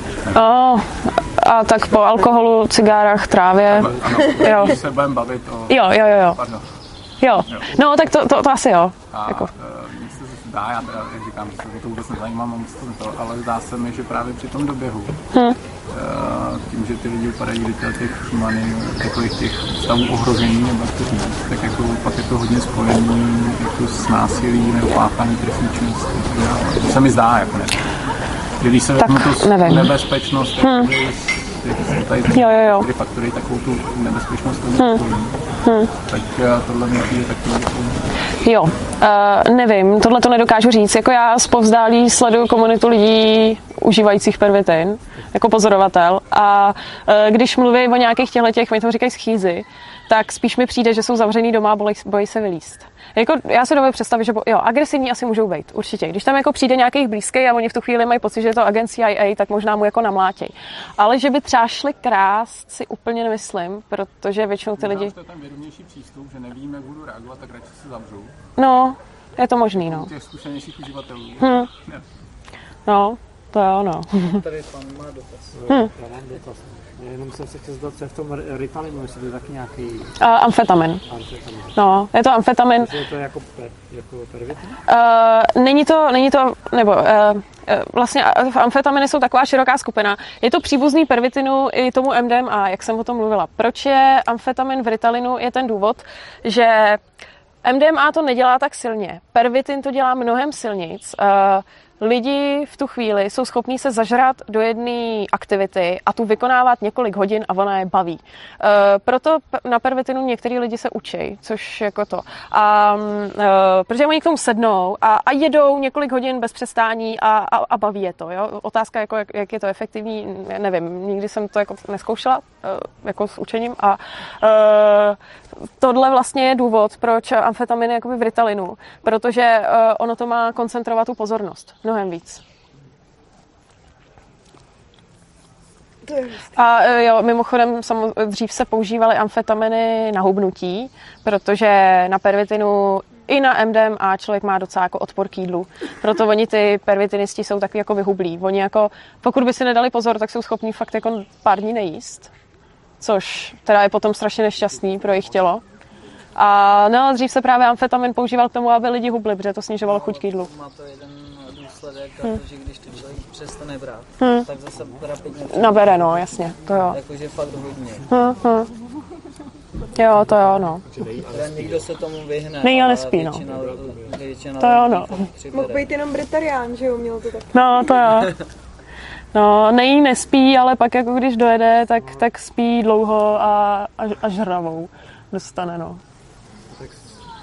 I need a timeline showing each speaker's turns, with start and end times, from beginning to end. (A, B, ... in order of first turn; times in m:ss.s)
0:00.3-0:04.8 A
0:03.7-0:06.7 B
0:05.7-0:06.4 A
0:07.2-0:09.5 A
0:07.5-0:07.7 B
0:09.1-0:15.2 B
0:15.9-0:27.8 B
0:28.6-0:38.0 B
0:29.0-0:29.9 A
0:30.6-0:30.9 A
0:32.3-0:32.9 A
0:35.6-0:35.9 A
0:38.4-1:05.2 A
1:04.8-1:08.4 B
1:08.6-1:10.1 A
1:09.8-1:12.1 B
1:11.4-1:11.7 A
1:12.9-1:14.4 A
1:14.2-1:15.6 C
1:15.5-1:20.1 D
1:20.2-1:21.0 A
1:21.1-1:21.8 D
1:21.8-1:22.9 A
1:22.8-1:24.8 D
1:24.9-1:37.0 A
1:37.6-2:05.2 A
2:05.8-2:12.4 A
2:16.0-2:16.6 E
2:16.5-2:32.3 A
2:33.0-2:35.6 A
2:36.4-2:40.5 A
2:39.8-2:46.0 C
2:44.2-2:44.5 A
2:45.5-2:47.0 A
2:46.9-2:48.1 C
2:48.1-2:48.7 A
2:50.0-2:50.8 A
2:50.9-2:51.9 D
2:51.3-2:55.8 C
2:52.6-2:53.4 A
2:53.4-2:54.2 D
2:54.6-2:55.1 A
2:55.5-2:57.5 E
2:57.5-2:58.3 A
2:59.3-3:06.0 A
3:06.7-3:07.1 D